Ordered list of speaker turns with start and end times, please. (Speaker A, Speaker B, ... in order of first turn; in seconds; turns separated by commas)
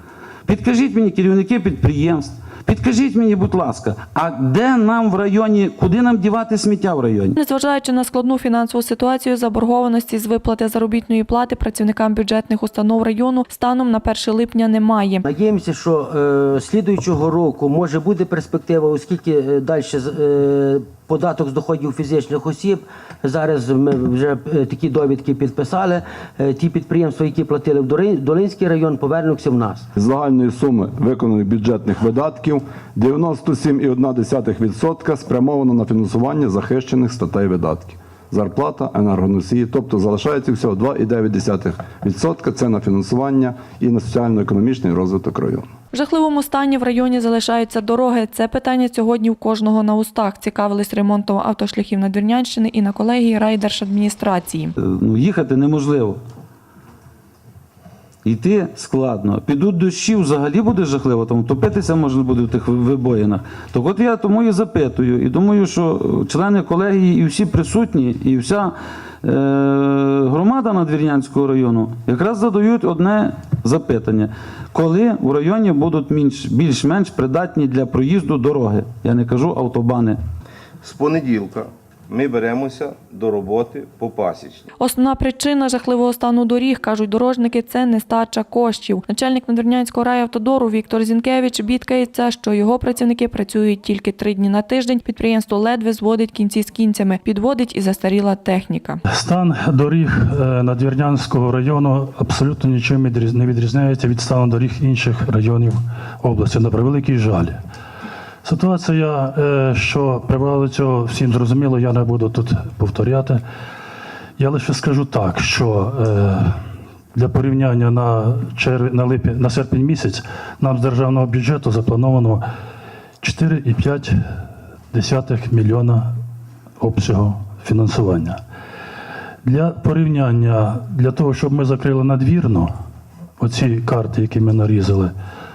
Speaker A: 0.5-7.3, Speaker B: 7.4-15.2, Speaker C: 15.3-29.8, Speaker D: 29.9-45.7, Speaker B: 45.9-54.7, Speaker A: 54.8-56.2, Speaker A: 58.2-80.2, Speaker E: 80.8-84.7, Speaker B: 84.8-99.0, Speaker F: 99.1-107.6, Speaker F: 108.4-113.4, Speaker F: 114.4-116.5, Speaker F: 117.1-122.4, Speaker F: 123.2-124.2, Speaker F: 124.9-126.1, Speaker F: 126.8-128.4, Speaker F: 129.4-132.7, Speaker F: 133.4-135.1